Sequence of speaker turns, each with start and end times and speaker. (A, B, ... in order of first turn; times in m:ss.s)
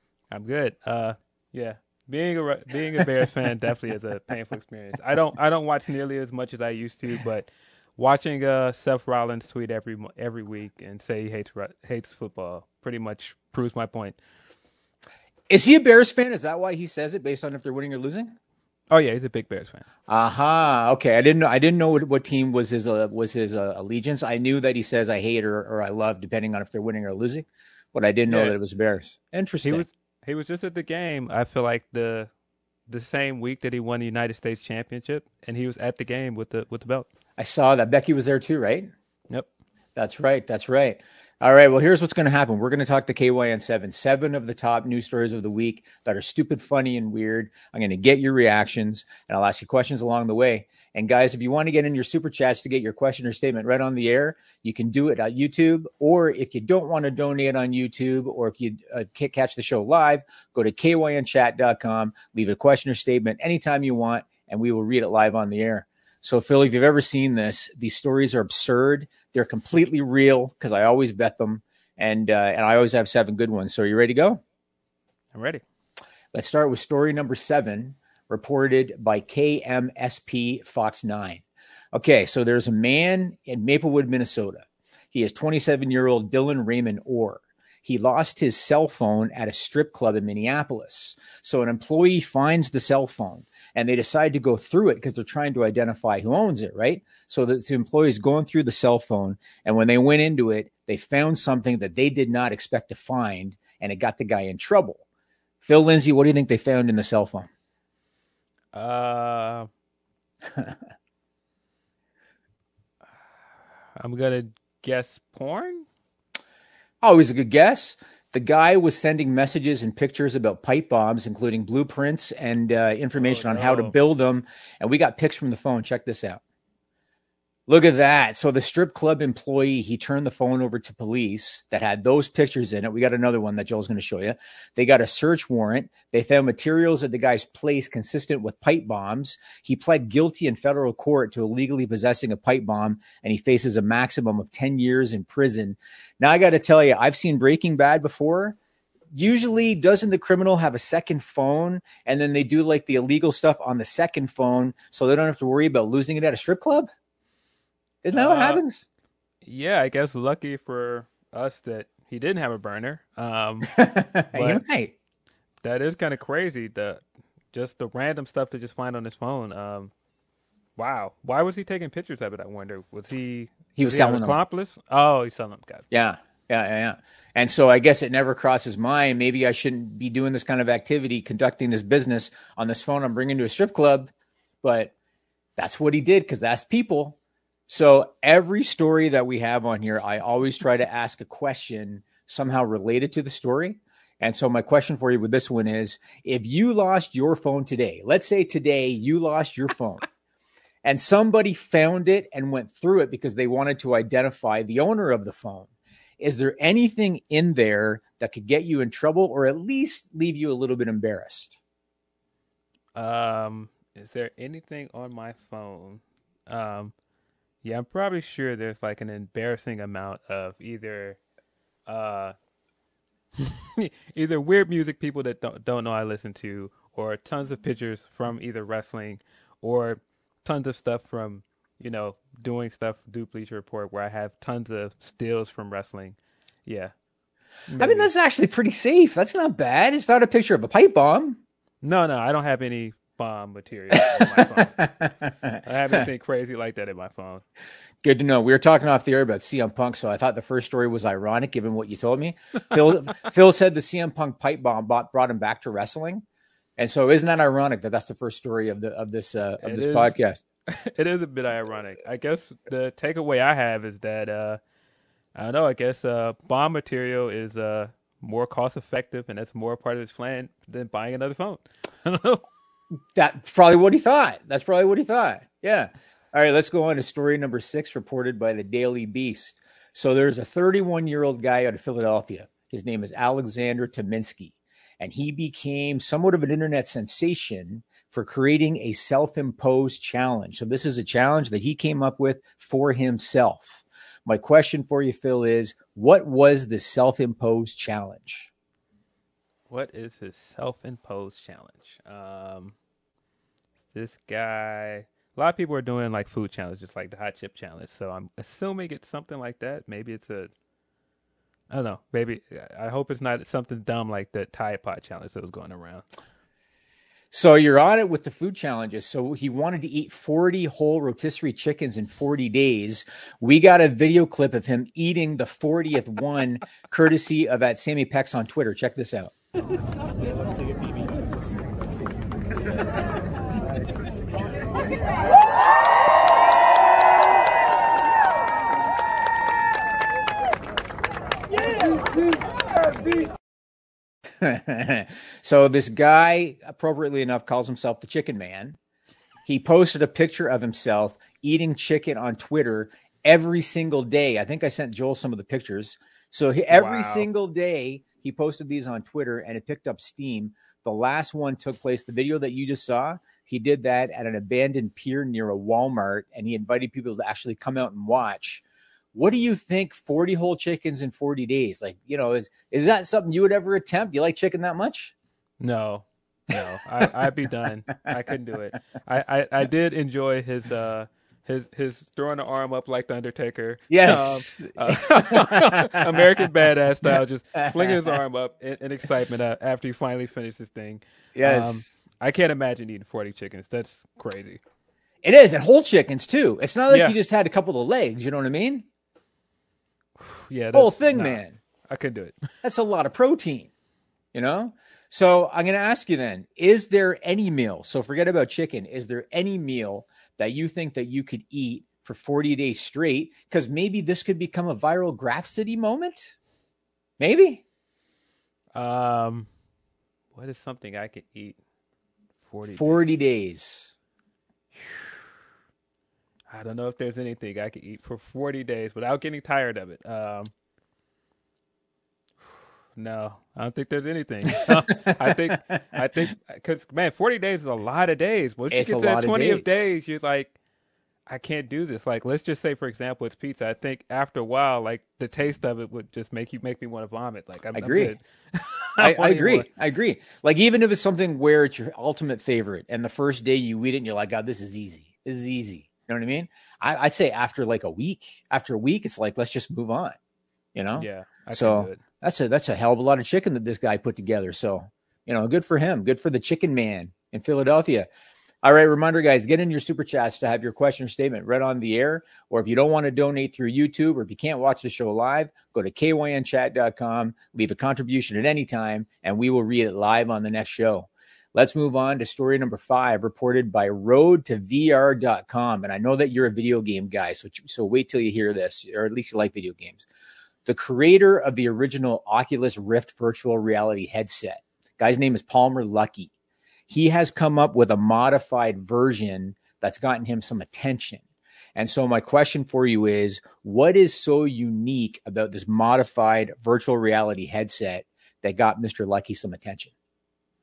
0:00.3-0:14.2 A
0:15.5-0:18.4 B
0:18.9-0:19.8 A
0:20.1-0:29.8 B
0:28.3-0:28.6 A
0:29.6-0:32.3 A
0:32.9-0:37.1 A
0:37.4-0:38.9 B
0:40.0-1:14.4 B
1:15.3-1:15.6 A
1:16.3-1:45.0 B
1:45.6-1:47.5 B
1:48.7-1:49.7 A
1:54.0-1:55.9 A
1:57.0-2:06.4 B
2:03.2-2:03.9 A
2:07.7-2:28.6 B
2:29.1-2:36.9 B
2:38.0-2:38.8 B
2:38.1-2:38.6 A
2:39.4-2:43.7 A
2:43.7-2:44.9 B
2:44.3-2:44.6 A
2:45.6-2:49.9 A
2:50.8-2:55.8 A
2:53.8-2:54.4 B
2:55.9-3:04.1 B
3:04.6-3:04.9 B
3:05.6-3:07.2 B
3:07.7-3:20.0 B
3:20.8-3:31.6 B
3:32.9-3:36.9 A
3:37.6-3:41.2 A
3:41.9-3:42.3 A
3:43.4-3:56.9 A
3:57.7-3:58.1 A
3:57.8-4:01.4 B
4:01.8-4:04.8 A
4:04.1-4:06.0 B
4:05.6-4:07.4 A
4:08.0-4:16.2 B
4:16.8-4:20.4 B
4:19.6-4:24.6 A
4:25.3-4:32.4 A
4:33.1-4:58.5 B
4:59.7-5:02.8 A
5:03.9-5:10.5 A
5:11.7-5:16.0 A
5:17.3-5:29.3 B
5:41.5-5:43.3 B
5:44.4-5:48.8 B
5:49.4-6:15.1 B
5:56.7-5:57.3 A
6:15.6-6:34.6 A
6:23.9-6:26.2 B
6:31.3-6:31.8 B
6:35.2-6:38.8 B
6:36.9-6:37.2 A
6:40.2-6:42.4 A
6:40.7-6:41.6 B
6:42.6-6:43.7 B
6:44.3-6:56.3 B
6:57.2-6:57.6 B
6:58.7-6:59.5 A
7:00.3-7:01.6 A
7:02.4-7:03.1 A
7:02.7-7:03.9 B
7:06.5-7:10.5 A
7:13.0-7:20.5 A
7:14.6-7:15.7 B
7:18.7-7:19.9 B
7:21.3-7:29.7 A
7:27.7-7:28.1 B
7:29.0-7:40.2 B
7:40.7-7:48.1 B
7:40.9-7:42.0 A
7:48.6-8:10.0 B
8:10.6-8:16.3 B
8:16.9-8:21.2 B
8:21.7-8:29.9 B